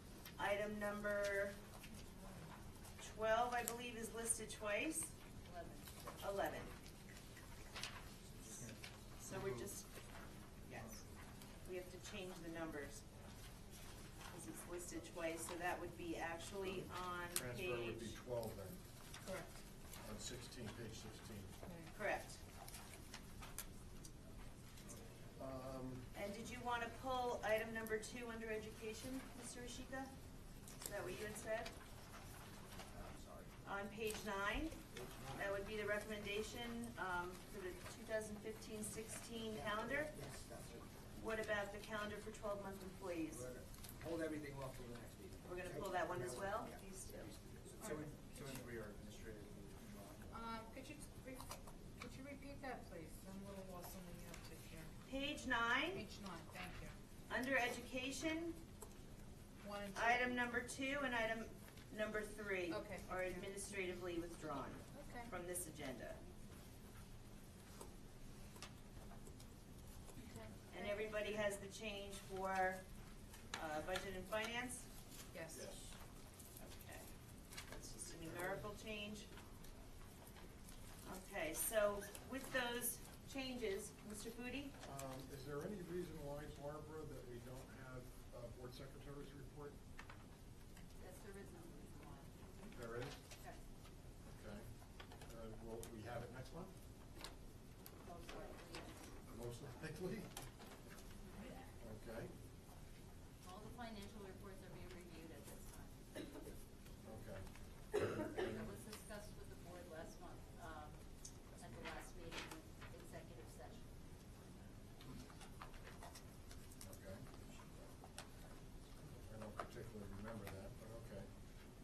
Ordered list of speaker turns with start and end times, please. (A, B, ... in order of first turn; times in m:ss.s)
0:00.4-0:01.6 A
0:02.0-0:02.5 B
0:03.0-0:05.1 A
0:05.4-0:06.6 C
0:06.2-0:06.7 A
0:08.4-0:08.7 D
0:09.2-0:09.9 A
0:09.3-0:09.7 E
0:10.6-0:11.0 A
0:11.6-0:13.0 A
0:14.3-0:18.2 A
0:17.3-0:18.8 E
0:19.2-0:19.6 B
0:20.0-0:21.5 E
0:21.9-0:22.4 A
0:25.4-0:26.1 E
0:26.1-0:30.1 A
0:30.8-0:31.7 A
0:32.9-0:33.5 D
0:33.6-0:34.8 A
0:34.9-0:35.6 D
0:35.3-0:40.2 A
0:39.5-0:41.0 D
0:41.1-0:43.4 A
0:43.3-0:50.4 D
0:45.4-0:47.3 A
0:47.8-0:48.6 B
0:50.3-0:54.9 B
0:55.0-0:56.0 A
0:55.9-0:57.0 B
0:57.3-0:58.6 A
0:59.6-1:00.3 B
0:59.9-1:06.2 A
1:02.7-1:03.4 B
1:04.9-1:05.3 B
1:10.2-1:10.9 B
1:10.7-1:12.8 A
1:13.5-1:14.9 A
1:15.3-1:15.6 B
1:15.5-1:15.8 E
1:16.6-1:17.1 A
1:17.7-1:19.3 A
1:21.0-1:24.7 A
1:24.8-1:29.7 E
1:31.0-1:32.7 C
1:32.7-1:33.2 E
1:34.2-1:34.6 E
1:35.3-1:36.7 E
1:38.0-1:39.1 C
1:39.3-1:40.3 E
1:41.2-1:41.6 C
1:41.8-1:42.3 E
1:43.4-1:46.0 C
1:47.0-1:47.4 E
1:48.0-1:48.8 E
1:48.4-1:51.0 C
1:51.6-1:53.9 C
1:56.8-1:57.3 E
1:59.2-2:01.3 E